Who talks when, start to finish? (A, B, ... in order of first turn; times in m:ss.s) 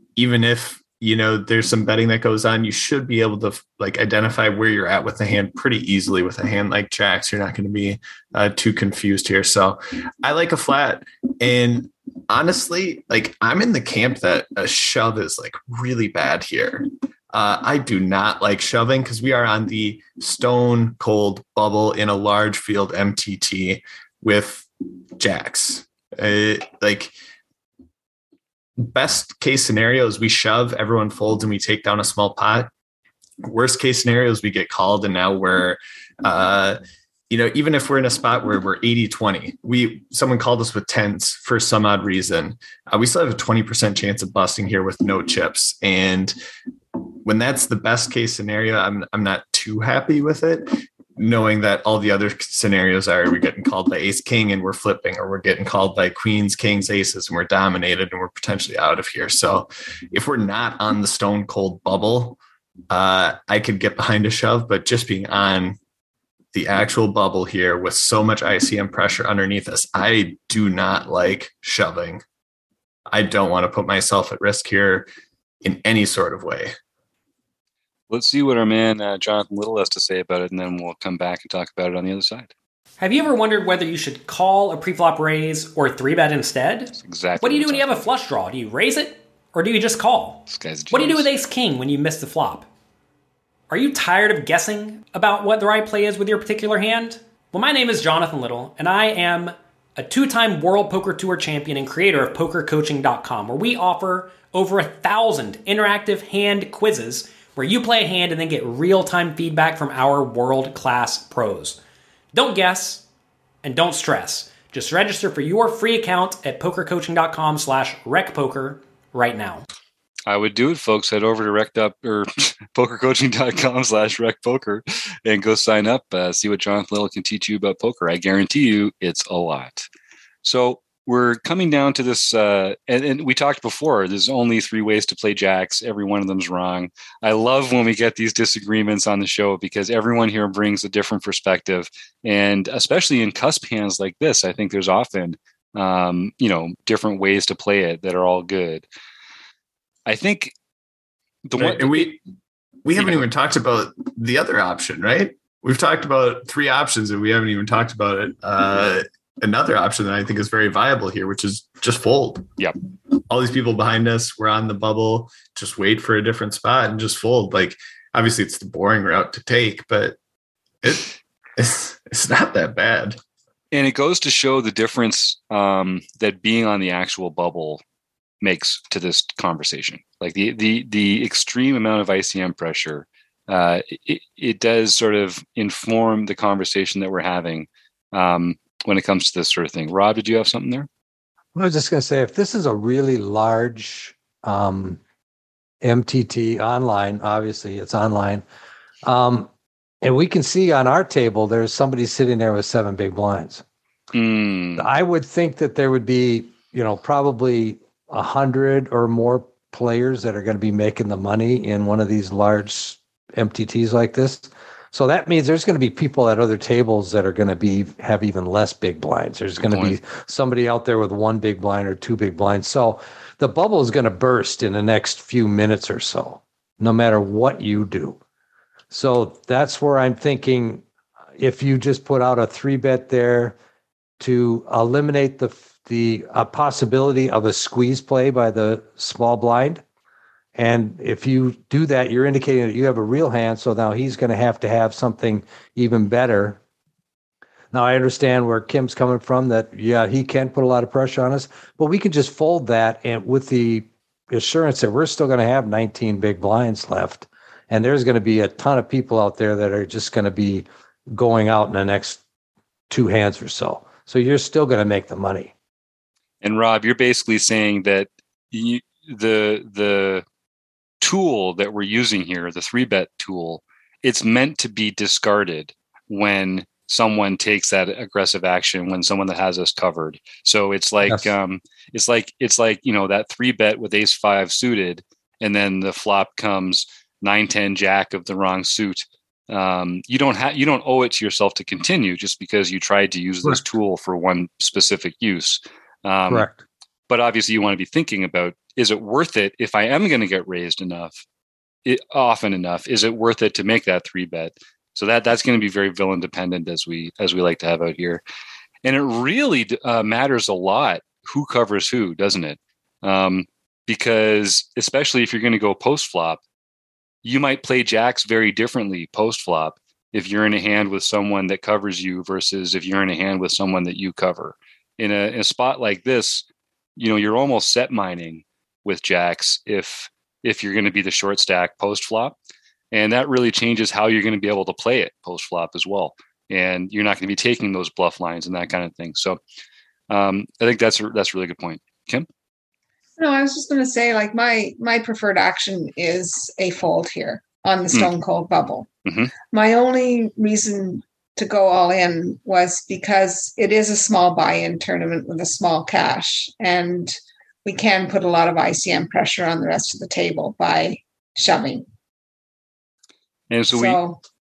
0:00.2-0:27.1 A
0:28.8-0:32.7 A
0:33.4-0:36.8 A
0:37.3-0:46.4 A
0:47.0-1:02.4 A
1:02.9-1:05.8 A
1:06.5-1:12.2 A
1:13.1-1:15.1 A
1:15.6-1:16.8 A
1:18.1-1:22.5 B
1:23.0-1:32.7 C
1:27.0-1:28.1 B
1:30.5-1:31.3 B
1:33.7-1:51.8 C
1:52.3-1:53.0 C
1:53.6-1:59.7 C
2:00.3-2:09.9 B
2:10.4-2:28.9 B
2:30.1-2:30.5 B
2:31.5-2:32.2 B
2:31.6-2:32.2 A
2:32.8-2:42.5 A
2:33.0-2:33.3 B
2:43.3-2:50.2 A
2:50.8-2:53.2 A
2:53.7-2:57.8 B
2:58.4-3:10.9 B
3:11.6-3:15.0 D
3:15.8-3:18.4 D
3:19.0-3:19.5 D
3:20.0-3:23.6 D
3:24.1-3:24.9 B
3:24.8-3:48.2 D
3:39.7-3:40.0 B
3:48.9-3:50.8 D
3:51.4-3:53.6 D
3:54.2-3:59.8 D
4:00.6-4:06.6 D
4:07.7-4:22.2 D
4:22.9-4:25.5 D
4:26.4-4:30.2 B
4:31.0-4:56.5 B
4:41.0-4:41.3 D
4:56.3-4:56.6 D
4:57.1-5:01.2 B
5:01.8-5:08.2 B
5:08.8-5:16.4 B
5:17.2-5:26.5 B
5:27.0-5:32.4 B
5:32.9-5:39.4 B
5:40.1-5:42.3 B
5:43.2-5:48.9 E
5:49.0-5:49.3 B
5:49.5-6:01.9 E
6:03.5-6:04.0 B
6:03.7-6:04.2 E